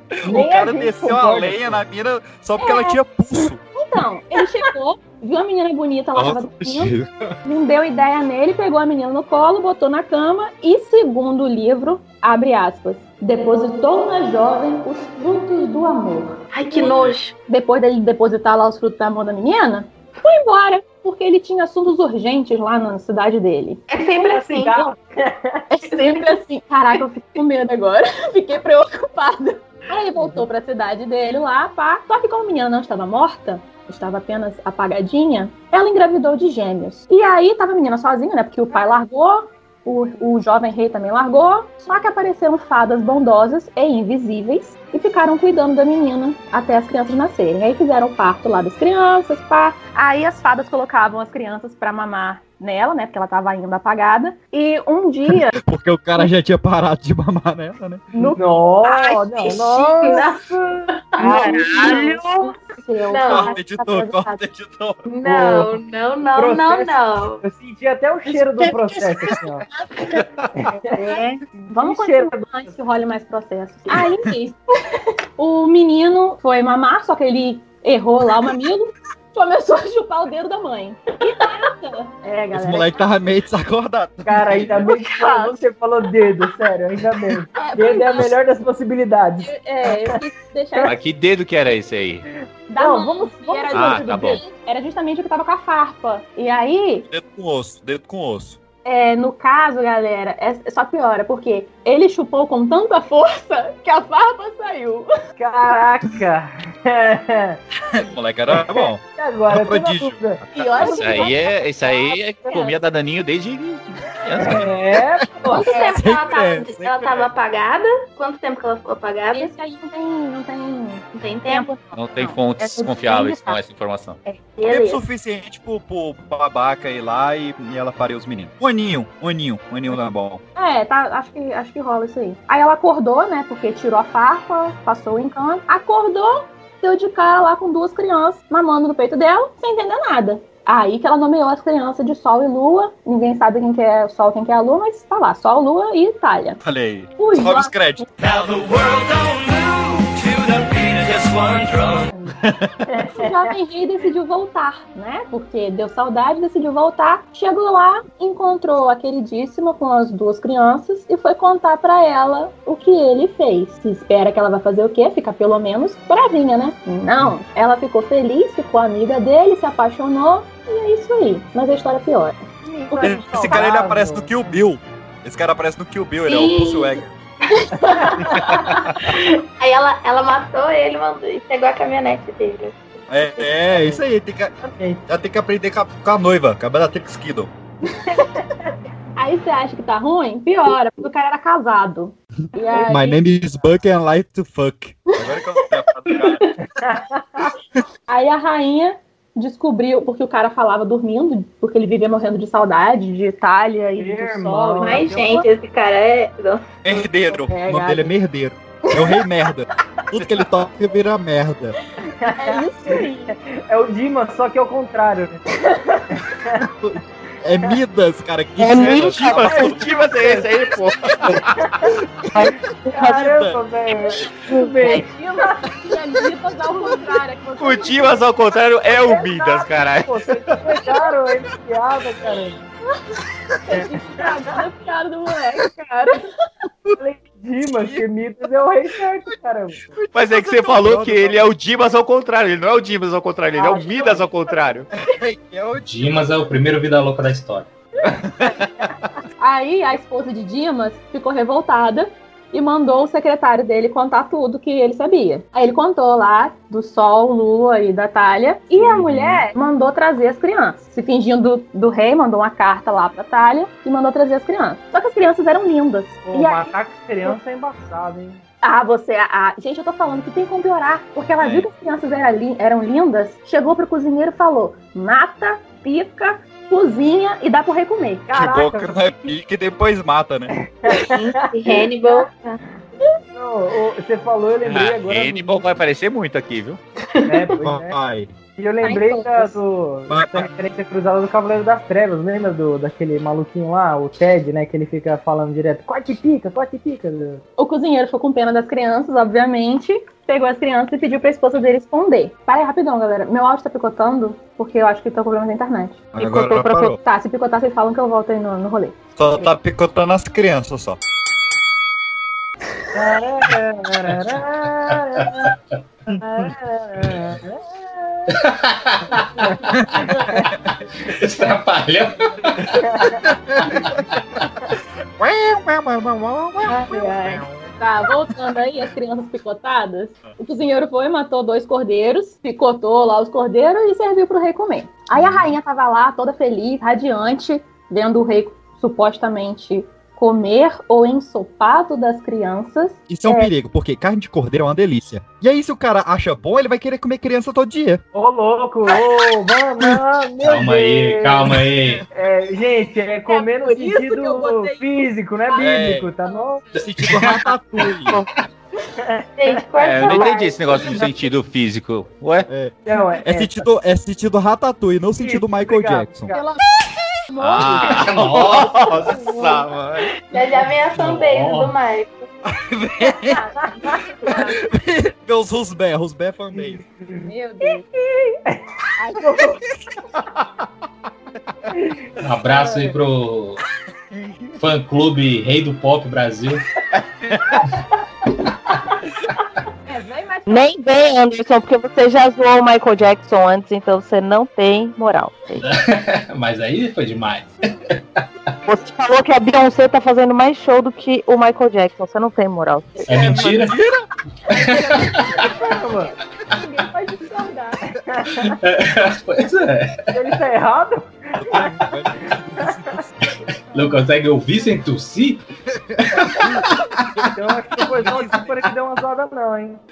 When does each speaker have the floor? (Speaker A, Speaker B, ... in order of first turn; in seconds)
Speaker A: 0.2-3.6, 6.2-7.3, 55.5-58.0, 63.3-65.0, 82.5-84.8, 97.1-98.6, 107.9-110.7, 115.2-117.3, 124.7-130.4, 146.6-148.7, 173.0-177.1, 178.2-179.0, 183.1-187.5, 192.8-196.4, 206.8-211.8, 216.7-219.8, 222.4-223.6, 237.6-238.0, 239.9-241.5, 245.0-246.3, 248.4-248.9, 278.3-280.5, 287.6-288.3, 290.1-290.5, 306.1-307.0, 309.2-311.0, 316.1-316.5, 323.2-324.0, 325.2-327.7, 335.1-335.4, 343.1-348.0, 355.6-356.1, 356.7-358.2, 362.5-366.3, 372.4-373.4, 374.2-376.8, 403.0-404.1, 411.4-413.3, 416.0-416.7, 417.9-418.7
Speaker B: 0.3-0.9, 2.6-3.0, 3.8-6.9, 7.4-16.9, 17.5-24.6, 25.7-55.5, 58.1-58.4, 61.2-64.4, 70.9-74.6, 75.4-82.9, 87.5-88.3, 89.4-90.9, 92.7-97.1, 98.8-105.0, 110.5-112.7, 115.5-116.0, 119.3-123.5, 124.3-124.7, 130.6-146.6, 147.2-148.0, 152.9-172.4, 172.9-173.6, 189.2-193.2, 198.1-205.4, 207.5-208.1, 212.3-213.3, 224.8-228.1, 233.7-236.2, 249.4-267.4, 268.6-278.6, 288.8-289.6, 297.6-306.2, 307.0-308.9, 326.9-343.5, 353.3-354.9, 355.5-355.7, 367.3-367.6, 373.2-373.5, 374.2-374.5, 377.2-377.8, 389.9-390.7, 404.6-405.0, 406.5-407.8
Speaker C: 0.3-1.7, 24.3-25.6, 58.2-62.0, 65.2-65.7, 66.3-69.6, 70.6-72.7, 84.2-90.2, 92.8-94.1, 105.4-107.6, 109.2-110.4, 114.4-115.9, 172.7-174.5, 177.8-178.1, 184.6-185.0, 196.8-197.5, 204.0-205.4, 212.2-216.7, 219.4-220.5, 221.5-221.9, 222.9-225.6, 228.9-232.6, 233.7-234.6, 237.0-239.8, 243.6-244.6, 258.8-259.1, 266.2-268.4, 278.4-279.1, 280.5-281.7, 283.3-285.7, 287.2-288.0, 288.6-297.4, 312.9-315.5, 316.2-318.3, 319.3-320.5, 322.7-323.3, 326.7-327.4, 348.1-351.6, 352.1-356.6, 359.0-359.6, 362.9-363.6, 365.2-366.5, 377.1-379.6, 382.6-382.9, 405.4-406.1, 408.1-408.5, 410.1-411.7, 417.2-419.8
Speaker D: 16.5-17.3, 23.9-24.8, 58.9-60.4, 60.9-62.0, 63.1-63.6, 65.1-67.4, 84.8-85.6, 115.5-119.5, 121.1-121.8, 124.7-125.0, 176.3-182.8, 196.2-196.5, 204.8-206.8, 280.9-282.6, 287.1-287.6, 359.4-360.8, 370.2-372.3
Speaker E: 61.6-62.2, 218.6-219.5, 306.2-306.9, 390.5-395.6, 398.6-403.0
Speaker F: 90.8-92.2, 93.7-94.4, 110.7-114.7, 121.9-124.2, 219.0-221.8, 227.6-230.8, 240.1-244.9, 284.6-286.8, 359.8-362.5, 367.4-370.0
Speaker G: 245.8-247.7, 318.5-319.1, 321.1-322.2, 350.4-352.0, 367.9-368.7, 370.9-371.7, 382.2-383.6, 384.6-386.6, 395.6-397.5, 403.1-403.7, 408.4-410.0, 413.7-415.4, 416.2-416.5